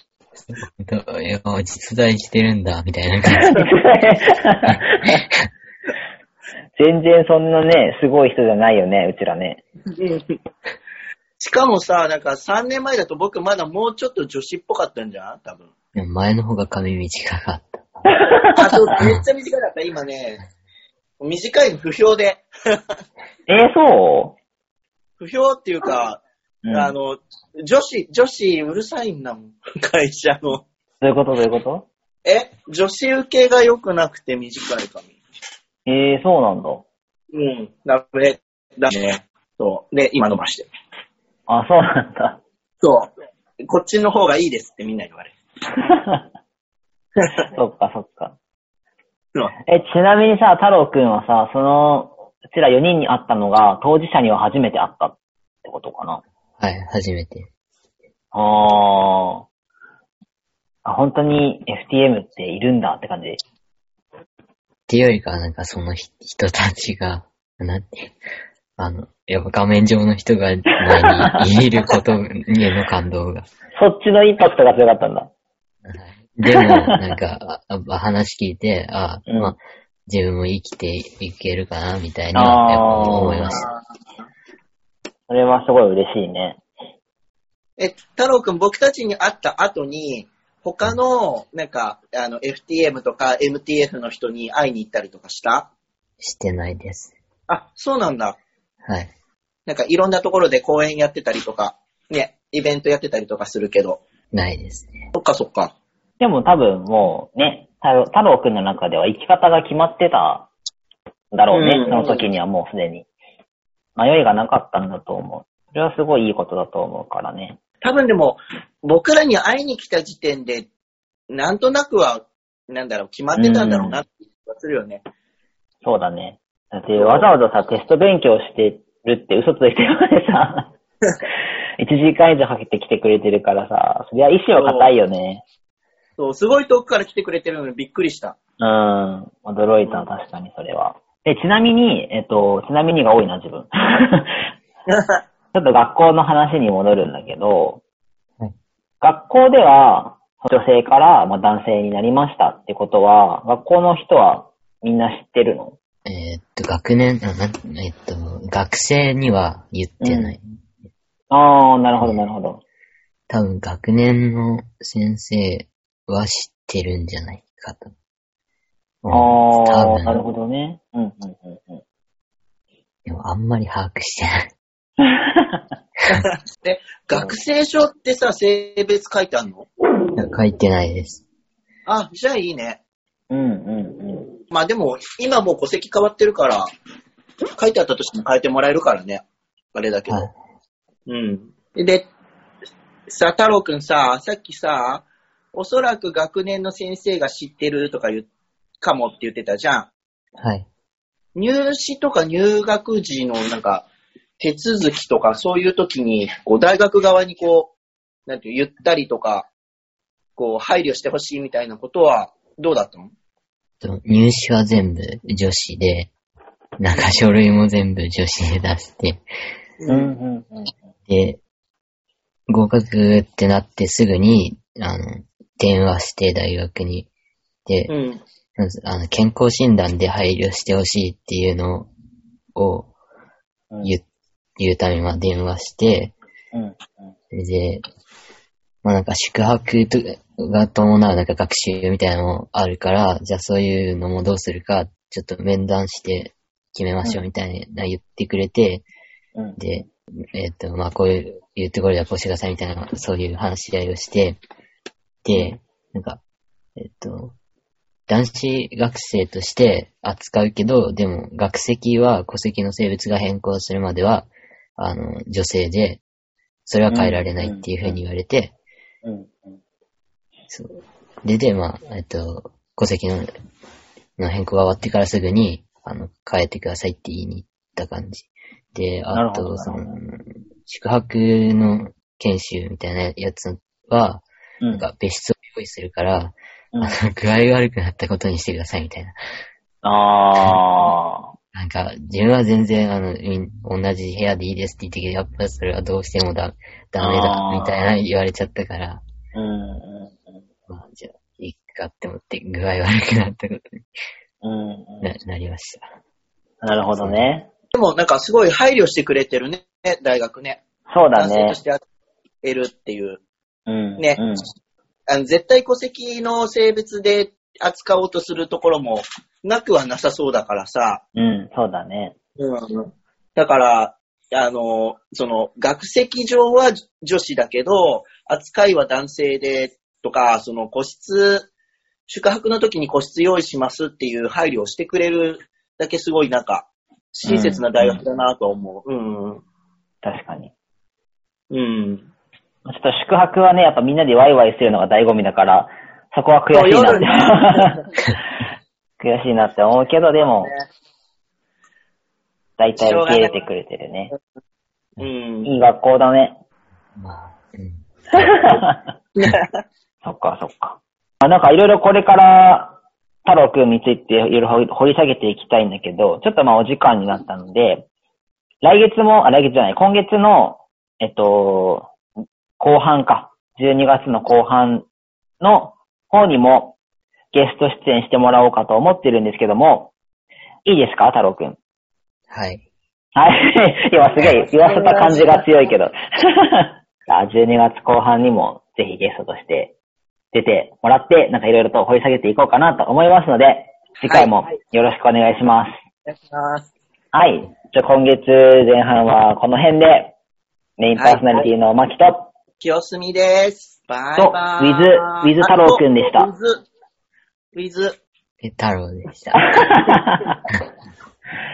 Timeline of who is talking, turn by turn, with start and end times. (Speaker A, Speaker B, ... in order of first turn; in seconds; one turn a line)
Speaker A: 0.5-3.6
Speaker B: 3.5-5.2
Speaker A: 4.7-5.4
Speaker B: 6.8-9.6
Speaker C: 9.9-10.4
Speaker C: 11.4-15.7
Speaker A: 15.9-18.1
Speaker B: 18.1-18.9
Speaker C: 18.5-20.4
Speaker C: 21.2-22.5
Speaker B: 23.5-24.4
Speaker C: 25.2-30.6
Speaker B: 26.6-26.9
Speaker B: 31.0-31.9
Speaker C: 32.2-35.1
Speaker B: 35.9-36.8
Speaker C: 37.3-40.7
Speaker B: 41.5-42.4
Speaker C: 42.8-43.1
Speaker C: 43.7-45.3
Speaker B: 45.9-46.2
Speaker B: 47.5-48.4
Speaker B: 49.7-56.2
Speaker A: 56.6-57.5
Speaker B: 58.3-59.4
Speaker B: 60.8-63.4
Speaker A: 64.9-68.1
Speaker A: 68.8-73.5
Speaker B: 73.8-75.3
Speaker A: 75.8-83.7
Speaker B: 79.3-79.5
Speaker B: 82.3-83.6
Speaker C: 83.5-83.8
Speaker B: 85.3-86.6
Speaker C: 87.8-95.7
Speaker A: 96.2-97.1
Speaker C: 97.5-98.4
Speaker A: 98.8-99.1
Speaker C: 99.7-104.0
Speaker A: 104.3-105.0
Speaker C: 105.1-105.7
Speaker B: 106.2-110.5
Speaker B: 111.3-113.0
Speaker C: 111.5-112.2
Speaker B: 114.0-117.6
Speaker C: 117.8-120.7
Speaker C: 121.3-125.0
Speaker B: 123.3-124.0
Speaker B: 125.8-130.7
Speaker C: 127.0-127.3
Speaker B: 131.8-135.4
Speaker C: 134.5-134.9
Speaker C: 136.2-138.3
Speaker B: 138.6-144.4
Speaker C: 139.8-140.1
Speaker C: 144.9-145.2
Speaker B: 145.5-147.8
Speaker B: 149.0-155.8
Speaker A: 156.1-160.4
Speaker B: 160.0-160.3
Speaker B: 161.3-162.6
Speaker A: 163.3-167.9
Speaker A: 169.0-170.2
Speaker B: 169.1-171.8
Speaker A: 173.1-174.5
Speaker B: 175.2-175.6
Speaker C: 176.1-179.7
Speaker A: 180.1-181.2
Speaker C: 181.8-182.8
Speaker B: 183.3-184.2
Speaker C: 184.5-186.7
Speaker C: 187.6-189.2
Speaker C: 189.7-190.3
Speaker A: 190.1-190.3
Speaker C: 191.1-192.1
Speaker C: 193.1-198.3
Speaker C: 198.8-199.9
Speaker A: 200.4-200.7
Speaker C: 201.3-203.8
Speaker C: 204.4-207.7
Speaker C: 208.3-209.5
Speaker C: 210.4-213.1
Speaker A: 213.8-216.1
Speaker A: 216.8-219.2
Speaker C: 219.8-220.1
Speaker B: 219.9-220.7
Speaker A: 221.1-221.4
Speaker A: 222.5-227.1
Speaker A: 227.7-227.9
Speaker C: 227.9-228.2
Speaker A: 228.6-231.9
Speaker A: 232.5-232.9
Speaker A: 234.6-236.1
Speaker B: 236.5-237.1
Speaker A: 237.3-237.8
Speaker A: 238.8-248.8
Speaker A: 249.6-254.4
Speaker A: 255.2-256.2
Speaker B: 255.3-255.6
Speaker A: 256.8-257.3
Speaker A: 258.1-266.0
Speaker A: 266.6-268.5
Speaker B: 266.9-268.0
Speaker B: 269.0-269.6
Speaker A: 270.5-273.3
Speaker A: 274.2-289.1
Speaker B: 279.1-279.9
Speaker B: 289.8-291.3
Speaker A: 290.4-290.9
Speaker A: 291.5-299.0
Speaker B: 297.0-297.9
Speaker B: 299.4-300.4
Speaker A: 300.7-303.9
Speaker B: 304.4-305.1
Speaker A: 305.0-305.8
Speaker B: 306.6-307.5
Speaker A: 306.9-307.3
Speaker C: 307.7-310.6
Speaker B: 310.9-311.6
Speaker C: 311.1-311.8
Speaker C: 312.4-313.2
Speaker B: 313.7-314.4
Speaker C: 315.1-321.0
Speaker B: 321.1-322.1
Speaker C: 322.4-331.5
Speaker C: 332.1-339.4
Speaker B: 337.2-338.0
Speaker B: 340.0-340.5
Speaker C: 341.5-342.1
Speaker B: 342.6-347.7
Speaker C: 346.5-347.8
Speaker B: 349.0-350.5
Speaker C: 350.2-350.6
Speaker B: 352.6-354.1
Speaker C: 352.8-353.4
Speaker C: 355.0-355.5
Speaker B: 355.4-356.4
Speaker A: 356.9-358.5
Speaker B: 358.2-358.8
Speaker C: 359.2-359.5
Speaker B: 360.0-367.9
Speaker B: 368.6-371.9
Speaker B: 372.6-374.9
Speaker B: 375.4-376.8
Speaker B: 377.3-379.9
Speaker B: 380.6-381.6
Speaker A: 382.3-382.6
Speaker B: 383.1-389.7
Speaker C: 384.4-385.4
Speaker B: 390.3-395.7
Speaker C: 394.0-394.3
Speaker C: 396.1-396.6
Speaker B: 397.1-400.1
Speaker B: 400.8-402.3
Speaker C: 400.9-401.4
Speaker C: 402.6-406.6
Speaker B: 404.2-406.3
Speaker C: 407.5-408.0
Speaker A: 408.4-409.5
Speaker B: 409.5-410.3